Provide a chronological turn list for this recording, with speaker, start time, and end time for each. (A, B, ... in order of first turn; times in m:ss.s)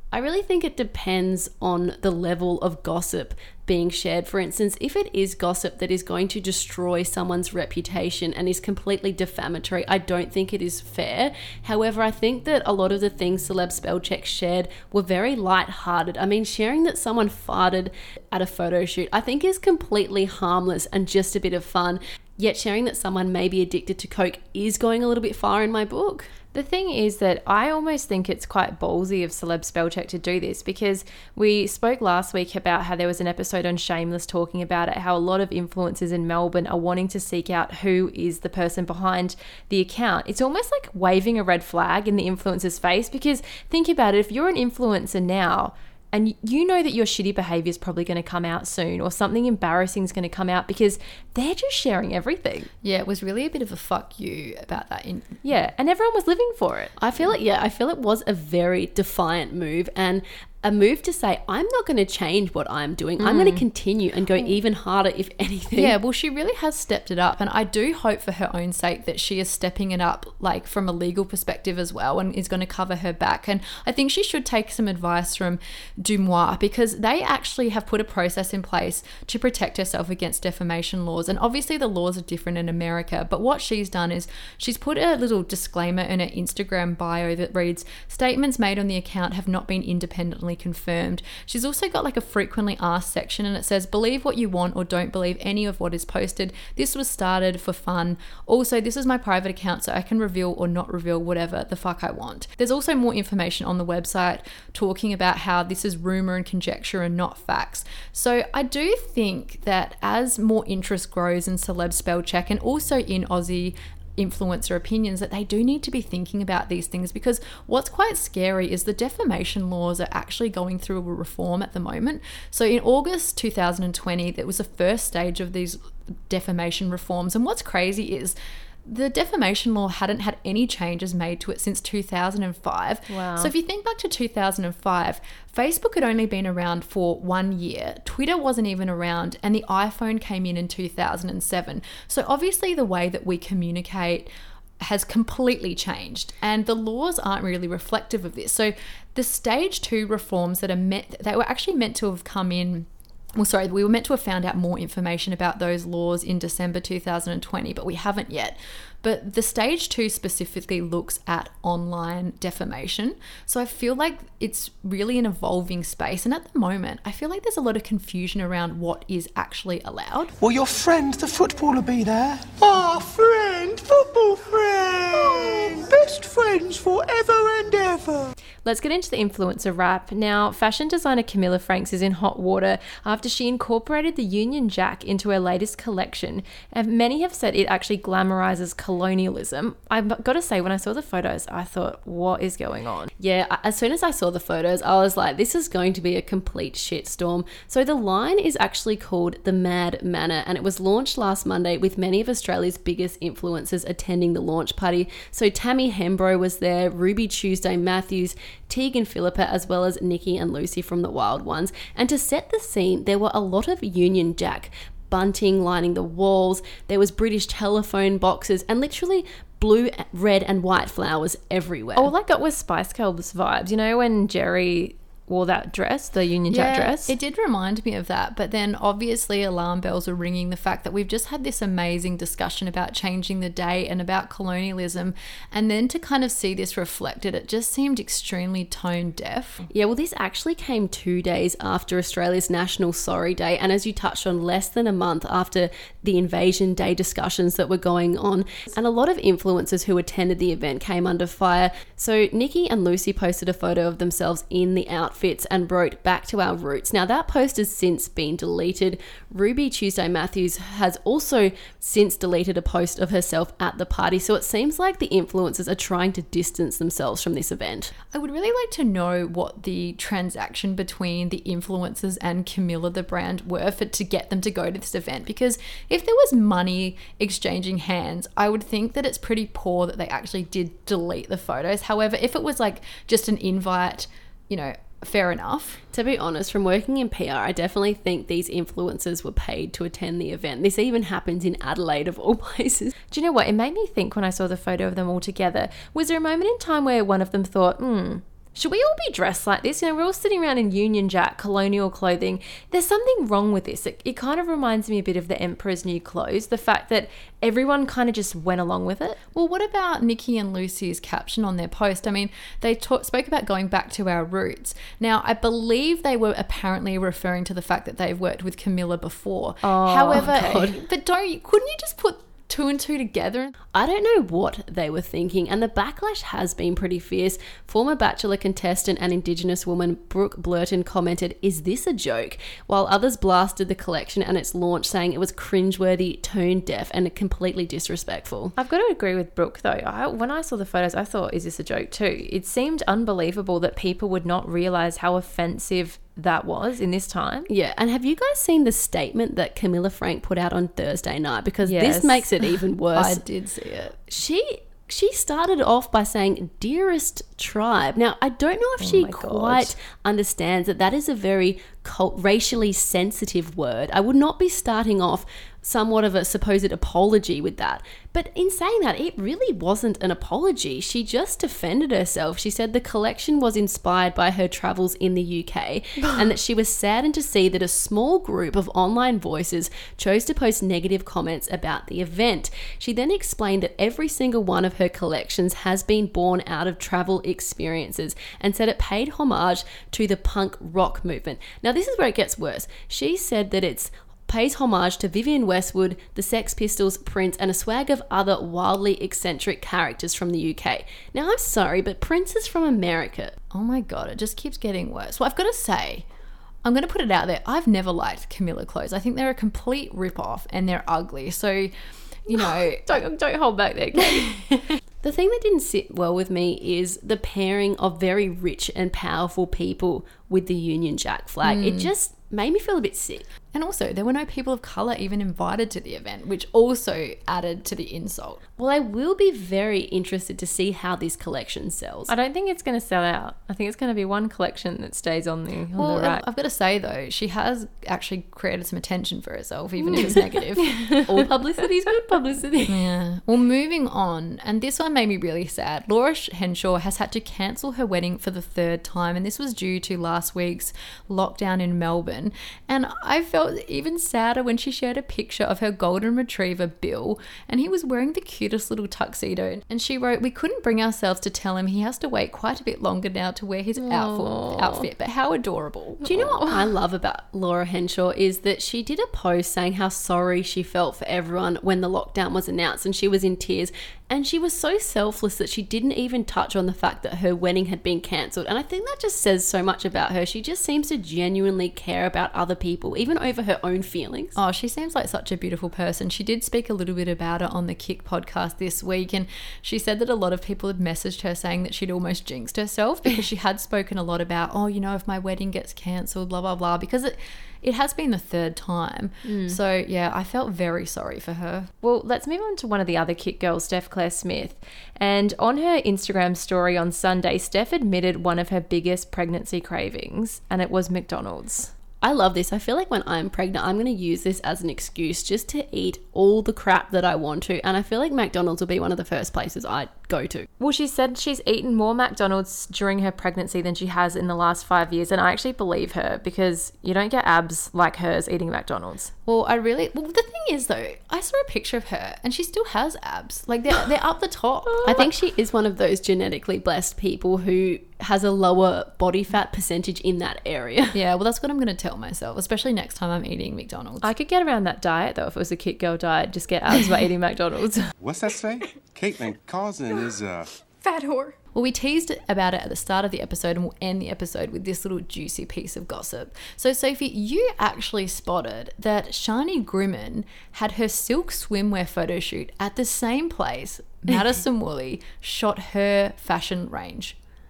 0:00.1-0:26.3 A
0:26.5-0:52.7 B
0:52.8-0:55.4 C
0:55.4-0:56.9 B
0:57.0-1:05.9 A
1:03.2-1:03.6 B
1:05.7-2:24.3 C
2:13.1-2:13.5 B
2:24.8-2:50.3 C
2:50.4-2:58.3 D
2:58.6-3:13.1 B
3:13.2-3:42.1 A
3:42.0-3:47.1 B
3:46.5-3:59.6 C
3:59.7-4:27.9 A
4:28.1-4:45.8 C
4:45.9-4:52.9 A
4:53.1-5:09.2 B
5:09.3-5:23.5 C
5:19.6-5:20.6 B
5:20.1-5:20.8 A
5:23.7-5:38.5 A
5:38.6-5:47.5 B
5:47.5-5:53.2 A
5:51.6-5:52.2 B
5:52.9-5:54.0 C
5:54.1-6:43.4 A
5:58.8-5:59.7 B
6:43.5-6:46.0 C
6:46.6-6:51.7 C
6:52.2-6:53.0 C
6:52.4-6:54.5 B
6:55.0-7:03.2 A
7:01.4-7:01.9 C
7:03.5-7:08.4 C
7:08.6-7:12.1 A
7:12.1-7:16.2 B
7:15.8-7:20.9 C
7:19.9-7:20.2 A
7:20.6-7:21.0 B
7:21.0-7:22.8 A
7:22.7-7:46.2 C
7:43.8-7:44.9 B
7:46.0-7:46.7 B
7:46.0-8:04.4 A
8:04.4-8:21.7 C
8:19.2-8:19.6 B
8:21.8-8:31.7 B
8:32.0-8:40.5 A
8:40.6-8:49.1 B
8:49.2-8:55.1 C
8:54.8-9:00.9 A
9:00.9-9:04.1 C
9:04.0-9:07.9 B
9:08.0-9:10.5 E
9:10.8-9:27.2 C